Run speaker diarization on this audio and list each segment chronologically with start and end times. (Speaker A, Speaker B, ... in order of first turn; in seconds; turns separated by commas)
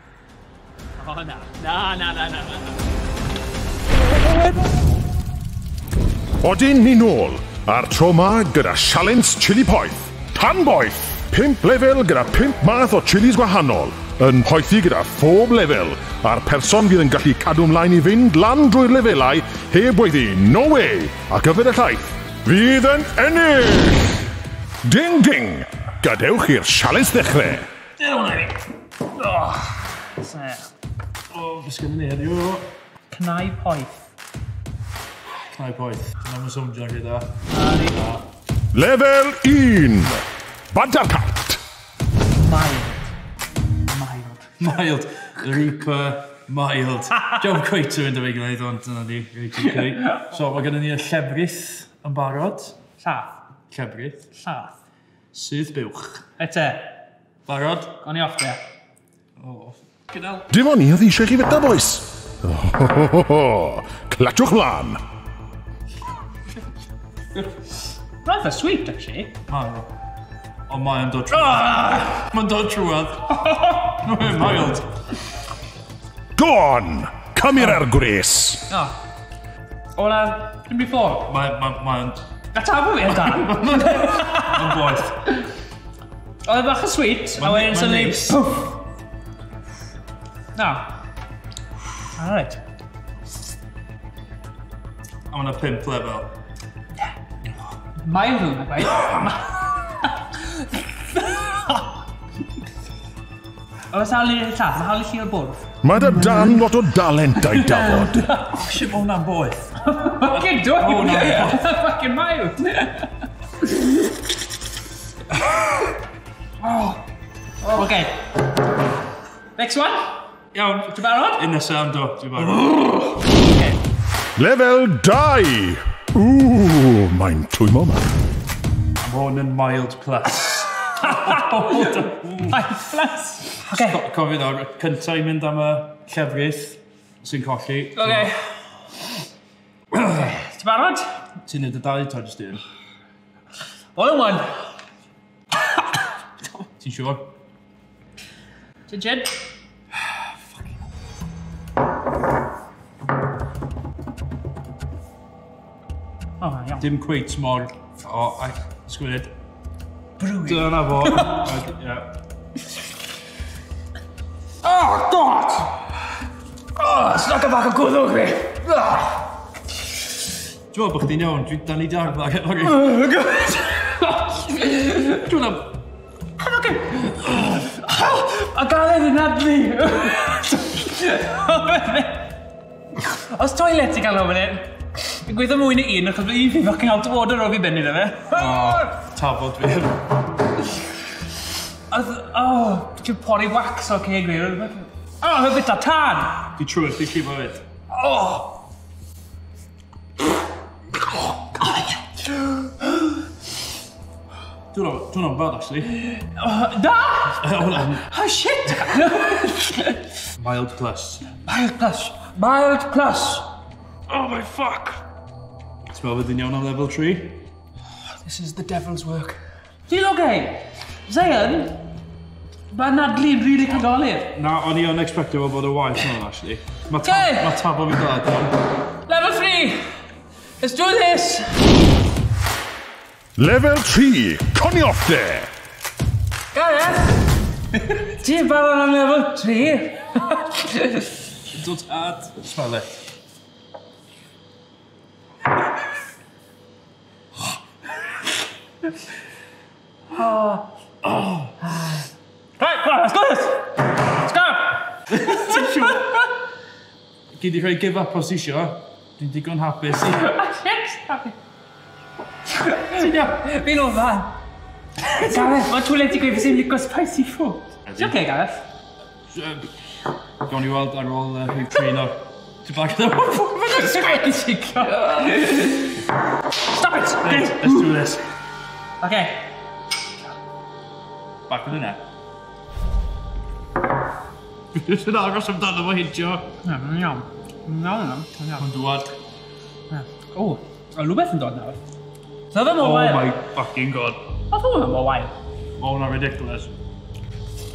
Speaker A: 1.0-2.8, Speaker B: 6.4-24.3, Speaker B: 24.8-27.7, Speaker C: 28.0-28.6, Speaker A: 29.1-30.7, Speaker C: 31.3-32.7, Speaker A: 33.1-33.9, Speaker C: 35.5-37.3, Speaker A: 37.5-38.0, Speaker C: 37.9-38.2, Speaker B: 38.7-40.2, Speaker B: 40.7-41.6, Speaker A: 42.3-43.1, Speaker A: 43.9-44.6, Speaker C: 44.6-52.8, Speaker A: 50.0-50.2, Speaker A: 53.0-53.4, Speaker C: 53.7-54.2, Speaker A: 54.4-54.8, Speaker C: 55.3-56.2, Speaker A: 56.4-57.0, Speaker C: 57.5-58.0, Speaker A: 58.0-58.6, Speaker C: 59.4-60.5, Speaker B: 60.5-65.0, Speaker A: 68.2-69.4, Speaker C: 69.5-69.9, Speaker C: 70.7-74.9, Speaker A: 71.3-72.2, Speaker A: 73.4-73.8, Speaker B: 76.4-78.7, Speaker A: 78.7-79.0, Speaker A: 80.0-81.3, Speaker C: 81.3-82.3, Speaker A: 82.5-85.3, Speaker C: 83.1-85.2, Speaker A: 86.5-88.8, Speaker C: 87.4-88.4, Speaker A: 90.5-90.9, Speaker A: 92.1-92.6, Speaker C: 95.3-96.3, Speaker A: 98.0-101.9, Speaker A: 103.9-106.6, Speaker B: 105.8-108.2, Speaker A: 107.4-108.6, Speaker C: 108.5-111.6, Speaker A: 109.8-113.1, Speaker C: 116.6-117.0, Speaker A: 117.7-118.2, Speaker A: 119.6-120.2, Speaker C: 120.5-123.8, Speaker A: 120.9-121.4, Speaker B: 124.4-128.1, Speaker C: 129.0-132.7, Speaker A: 131.0-134.0, Speaker C: 133.7-138.3, Speaker A: 138.0-138.5, Speaker A: 140.0-141.2, Speaker C: 141.5-142.6, Speaker A: 143.9-144.7, Speaker C: 146.8-147.3, Speaker A: 148.9-149.4, Speaker A: 156.4-156.9, Speaker C: 156.8-159.3, Speaker A: 160.2-161.5, Speaker C: 160.4-162.1, Speaker A: 164.7-165.7, Speaker A: 166.8-169.1, Speaker C: 170.7-173.1, Speaker A: 172.8-175.0, Speaker C: 174.9-175.8, Speaker A: 176.4-182.3, Speaker A: 183.0-188.9, Speaker C: 188.3-190.1, Speaker A: 191.9-196.4, Speaker C: 196.6-197.7, Speaker A: 197.9-198.6, Speaker A: 201.6-203.1, Speaker C: 204.7-205.9, Speaker A: 205.9-210.1, Speaker C: 207.4-208.1, Speaker C: 210.3-211.3, Speaker A: 211.4-213.5, Speaker A: 214.1-215.0, Speaker C: 215.9-217.4, Speaker A: 218.2-221.8, Speaker A: 222.7-224.3, Speaker C: 224.3-228.6, Speaker A: 227.0-227.6, Speaker A: 229.1-229.9, Speaker A: 230.6-231.6, Speaker B: 233.4-235.5, Speaker A: 236.5-241.1, Speaker C: 241.5-242.9, Speaker A: 250.1-250.7, Speaker C: 251.0-251.5, Speaker A: 251.6-256.1, Speaker C: 255.1-256.2, Speaker C: 257.3-260.3, Speaker A: 260.1-261.4, Speaker A: 262.5-264.4, Speaker C: 262.9-263.5, Speaker A: 265.1-268.6, Speaker C: 267.9-268.2, Speaker C: 269.3-269.7, Speaker C: 270.4-274.2, Speaker A: 273.4-276.0, Speaker C: 274.9-275.6, Speaker A: 276.6-277.8, Speaker C: 277.2-278.3, Speaker A: 279.0-279.6, Speaker C: 281.5-282.1, Speaker C: 284.7-286.5, Speaker A: 286.6-288.7, Speaker C: 288.6-289.1, Speaker A: 289.9-291.8, Speaker A: 292.5-293.4, Speaker C: 292.8-294.3, Speaker A: 294.5-295.3, Speaker C: 295.8-296.8